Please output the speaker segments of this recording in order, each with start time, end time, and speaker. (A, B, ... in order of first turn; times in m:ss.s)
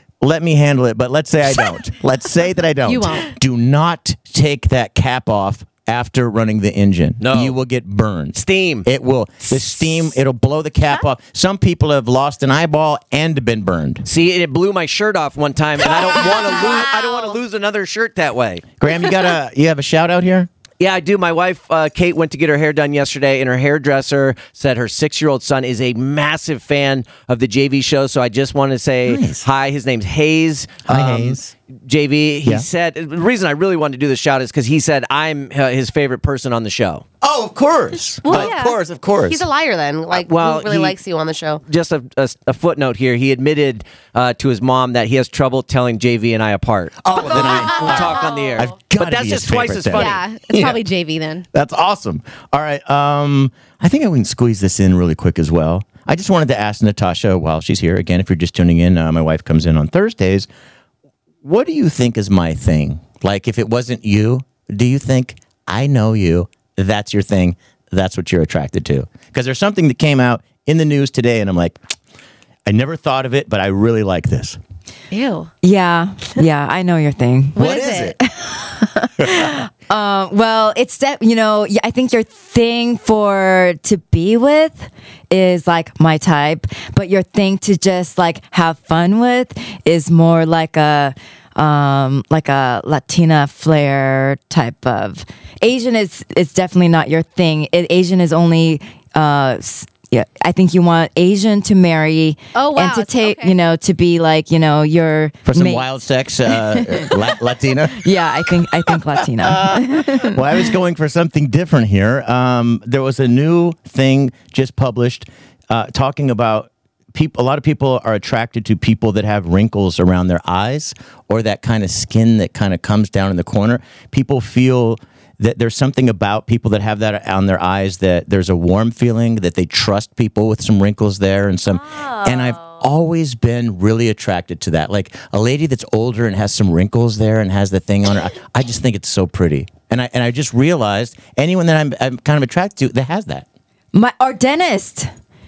0:00.2-0:14.1 A
0:02.9-0:03.3 B
0:07.2-0:07.6 C
0:08.4-0:08.9 C
0:14.1-0:18.6 C
0:18.8-0:20.5 A
0:20.8-0:37.0 C
0:29.0-0:29.4 A
0:30.9-0:31.5 A
0:37.2-0:39.5 A
0:38.3-0:38.6 D
0:38.4-0:38.7 B
0:39.3-0:41.6 D
0:40.1-0:41.0 C
0:41.6-0:50.6 C
0:47.0-0:50.8 A
0:47.2-0:48.6 B
0:50.0-0:51.4 B
0:51.5-1:00.5 A
1:01.4-1:11.8 A
1:12.7-1:14.6 A
1:15.1-1:15.5 B
1:15.6-1:46.0 E
1:17.6-1:18.1 B
1:17.6-1:18.2 A
1:42.6-1:43.6 B
1:45.4-1:48.1 A
1:46.7-1:47.2 E
1:48.0-1:50.3 E
1:49.4-2:23.5 A
2:23.9-2:25.1 E